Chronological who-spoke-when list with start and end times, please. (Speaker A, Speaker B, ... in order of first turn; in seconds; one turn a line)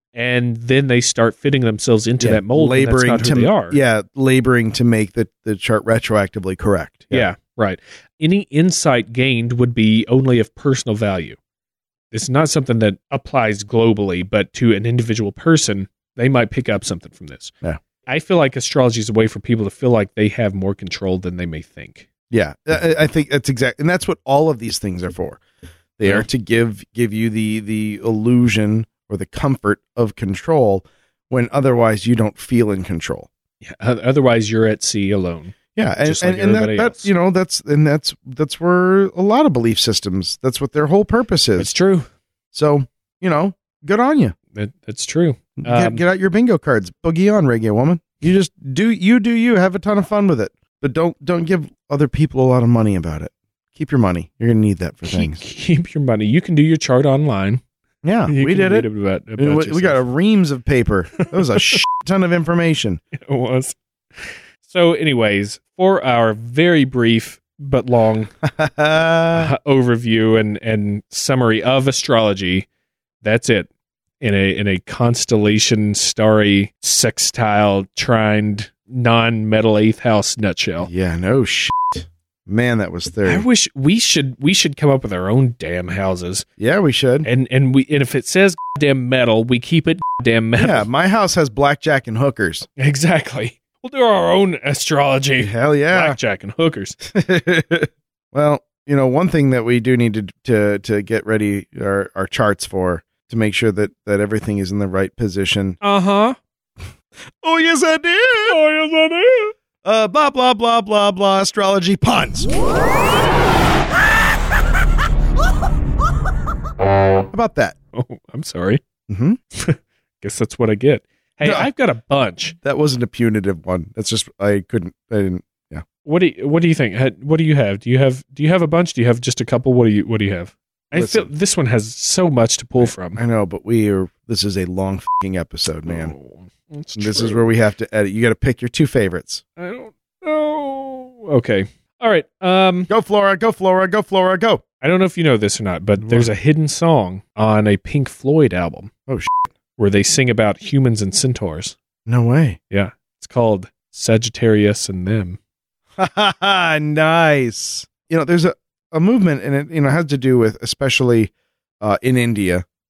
Speaker A: 0.1-3.8
Speaker B: 2.2-7.3
Speaker A: 7.1-11.4
Speaker A: 12.1-17.6
Speaker A: 18.1-22.1
Speaker B: 22.3-25.4
Speaker B: 26.0-33.3
Speaker A: 33.6-37.1
Speaker B: 35.8-41.7
Speaker A: 41.6-42.1
Speaker B: 42.5-44.4
Speaker A: 44.5-46.0
Speaker B: 45.6-55.4
Speaker A: 55.1-57.6
Speaker B: 58.0-58.9
Speaker A: 58.3-60.0
Speaker B: 59.4-63.0
Speaker A: 61.2-61.8
Speaker A: 63.1-63.8
Speaker A: 64.6-68.3
Speaker B: 68.4-69.5
Speaker A: 69.3-72.7
Speaker A: 73.2-73.7
Speaker A: 74.2-80.9
Speaker B: 80.8-83.5
Speaker A: 83.2-86.5
Speaker B: 86.6-87.3
Speaker A: 87.2-90.9
Speaker B: 90.6-92.7
Speaker A: 92.8-97.0
Speaker B: 95.4-96.2
Speaker B: 97.0-105.8
Speaker A: 105.8-106.4
Speaker B: 107.4-108.6
Speaker A: 108.5-109.5
Speaker B: 109.8-112.5
Speaker B: 117.3-117.8
Speaker A: 117.9-118.8
Speaker B: 119.1-119.4
Speaker A: 119.5-122.5
Speaker B: 121.4-121.7
Speaker B: 122.6-125.8
Speaker A: 126.0-133.2
Speaker B: 130.9-131.3
Speaker B: 132.8-136.1
Speaker A: 135.9-137.5
Speaker B: 137.0-139.4
Speaker A: 139.6-142.9
Speaker B: 142.9-144.6
Speaker A: 144.8-148.9
Speaker B: 146.0-146.3
Speaker B: 149.1-149.5
Speaker A: 149.8-151.8
Speaker B: 152.1-152.6
Speaker A: 152.7-155.4
Speaker B: 156.0-162.7